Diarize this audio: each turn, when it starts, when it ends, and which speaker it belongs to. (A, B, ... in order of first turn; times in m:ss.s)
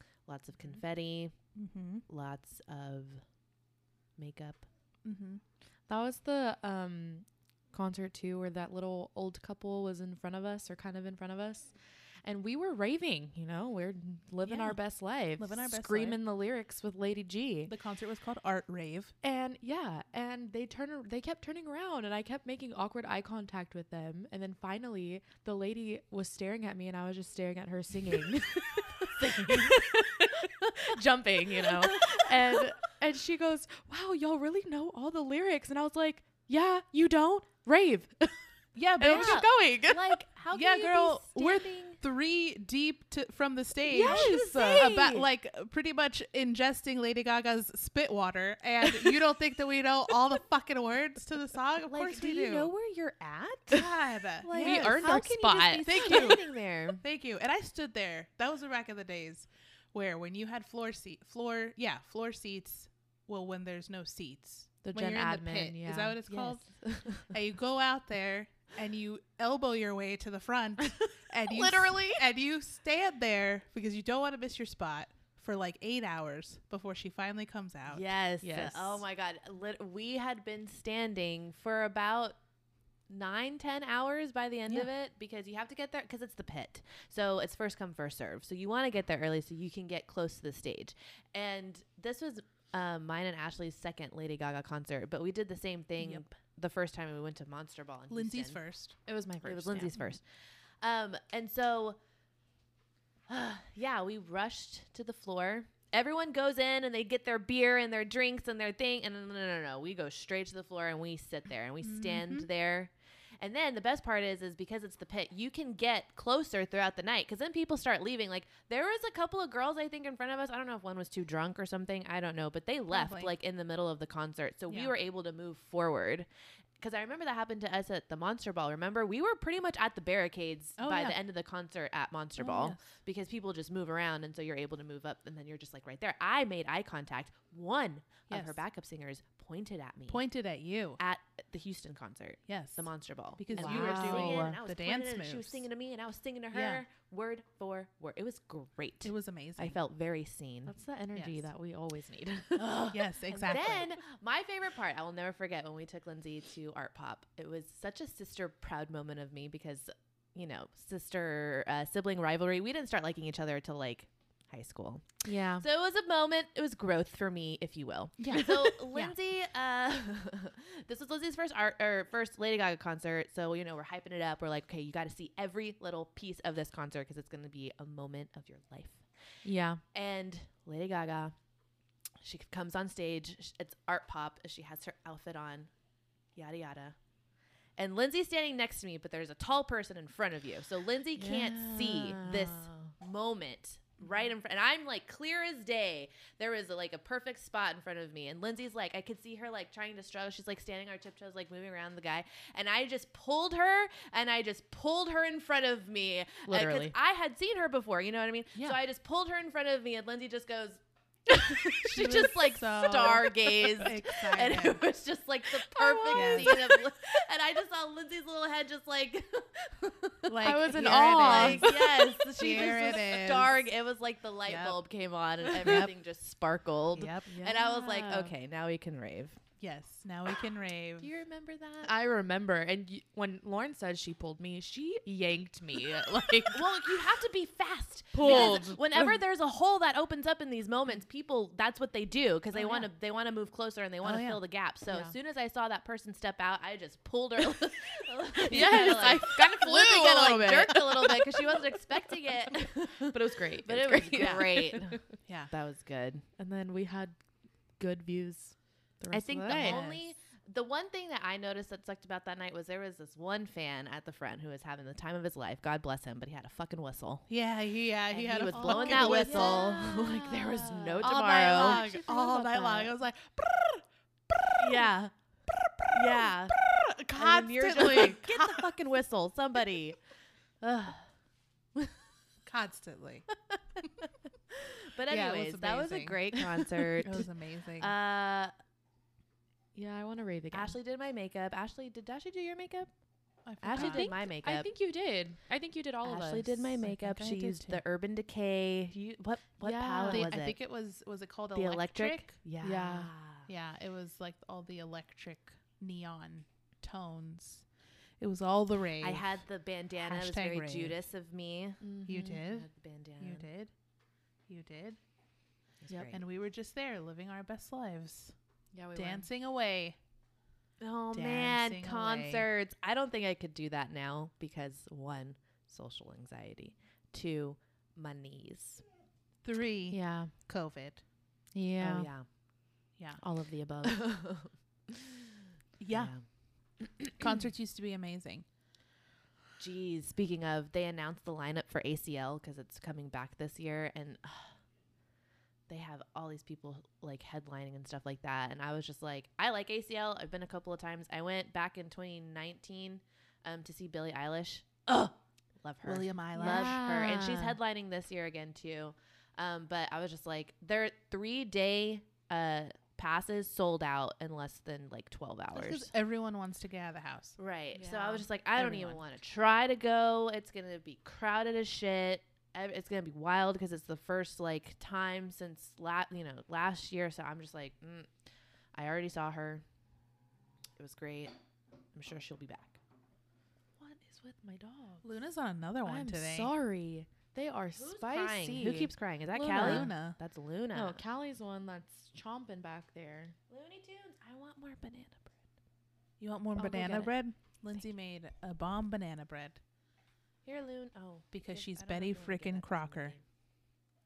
0:00.3-0:01.3 A
0:01.6-0:02.1 B
0:02.1-0:03.2 A
0:04.2-0:04.7 A
0:05.0-0:05.4 B
0:05.9-0:11.7 C
0:12.2-0:17.7 C
0:14.4-0:14.8 B
0:15.4-0:16.2 B
0:17.7-0:19.1 B
0:19.2-0:38.4 C
0:29.0-0:30.5 A
0:31.5-0:32.7 A
0:38.8-0:39.4 B
0:39.0-0:40.1 C
0:39.1-0:42.0 A
0:40.5-0:52.7 B
0:43.9-0:45.3 C
0:43.9-0:44.9 A
0:51.9-0:57.0 A
0:53.7-0:55.2 B
0:54.5-0:56.2 C
0:55.8-0:56.5 B
0:57.0-1:06.7 B
1:04.8-1:06.3 C
1:06.3-1:07.2 A
1:07.2-1:18.1 B
1:11.3-1:12.2 C
1:17.9-1:22.4 A
1:18.4-1:19.0 C
1:23.1-1:38.6 A
1:36.0-1:36.2 B
1:38.1-1:39.0 B
1:39.1-1:40.0 C
1:39.4-1:40.2 A
1:40.8-1:42.0 A
1:43.3-2:06.3 A
1:51.8-1:52.5 B
2:02.9-2:03.4 B
2:06.8-2:20.2 A
2:10.8-2:11.2 B
2:12.4-2:12.9 B
2:18.3-2:18.6 B
2:20.1-2:21.0 B
2:21.0-2:30.7 A
2:22.5-2:25.6 B
2:23.5-2:24.6 C
2:26.5-2:26.8 B
2:29.0-2:29.8 B
2:30.7-2:32.7 C
2:31.2-2:31.4 B
2:32.6-2:59.0 A
2:32.6-2:34.0 B
2:45.2-2:45.6 C
2:48.2-2:49.2 B
2:59.4-2:59.8 C
2:59.9-3:01.4 A
3:02.2-3:05.7 A
3:06.4-3:07.0 A
3:07.8-3:49.4 A
3:11.2-3:12.9 C
3:26.5-3:26.9 C
3:31.8-3:34.8 B
3:35.6-3:36.8 C
3:36.1-3:36.6 B
3:40.3-3:43.6 B
3:40.4-3:41.8 C
3:44.5-3:44.8 B
3:45.4-3:45.9 B
3:47.0-3:47.3 B
3:47.3-3:48.3 C
3:49.6-3:51.1 B
3:51.0-3:51.9 A
3:51.8-3:56.6 C
3:56.5-4:16.2 A
3:58.1-3:59.1 C
3:58.2-3:58.7 B
4:02.5-4:02.9 C
4:04.0-4:04.4 B
4:04.9-4:05.1 C
4:08.4-4:11.6 C
4:12.9-4:15.0 C
4:15.3-4:15.5 B
4:16.4-4:17.2 C
4:17.8-4:19.8 C
4:19.1-4:27.3 A
4:19.6-4:20.1 B
4:27.3-4:29.7 B
4:28.1-4:31.9 A
4:28.5-4:32.9 C
4:31.0-4:35.0 B
4:34.6-4:35.1 A
4:35.8-4:38.7 B
4:35.9-4:36.6 A
4:37.2-4:40.0 A
4:40.6-4:41.1 A
4:42.5-4:43.3 B
4:43.5-4:48.5 A
4:45.1-4:47.9 B
4:49.8-4:50.8 C
4:50.5-4:52.9 A
4:53.5-4:54.1 B
4:53.6-4:54.7 A
4:53.7-4:56.8 C
4:56.0-5:00.6 A
4:56.8-4:57.8 B
4:59.6-5:00.3 C
5:00.1-5:02.4 B
5:01.5-5:03.5 A
5:02.6-5:03.1 C
5:03.5-5:07.6 B
5:08.2-5:09.4 B
5:09.0-5:11.8 A
5:10.0-5:11.0 B
5:11.8-5:12.4 C
5:12.0-5:13.7 B
5:12.4-5:13.5 A
5:14.5-5:15.0 B
5:15.8-5:16.2 A
5:15.9-5:16.1 C
5:16.1-5:18.3 B
5:18.7-5:19.3 C
5:19.0-5:20.0 B
5:20.8-5:28.8 A
5:21.1-5:22.5 B
5:29.4-5:31.0 B
5:29.9-5:30.3 C
5:31.6-5:32.1 C
5:31.8-5:32.3 A
5:33.2-5:34.0 C
5:33.8-5:36.2 A
5:35.8-5:36.1 B
5:36.8-5:37.3 A
5:37.2-5:38.4 B
5:39.6-5:44.6 A
5:45.7-6:05.9 A
5:55.8-5:56.8 B
5:56.3-5:57.6 C
6:05.5-6:07.4 B
6:07.4-6:18.1 A
6:07.7-6:08.3 C
6:08.6-6:09.0 B
6:18.7-6:19.6 A
6:20.8-6:21.3 A
6:21.9-6:22.8 A
6:23.8-6:25.1 C
6:25.0-6:26.5 B
6:25.8-6:29.9 C
6:27.8-6:31.0 A
6:29.5-6:30.2 B
6:30.7-6:33.4 C
6:33.5-6:35.4 A
6:36.2-6:39.6 B
6:36.6-6:37.1 C
6:40.4-6:43.2 A
6:41.3-6:43.2 B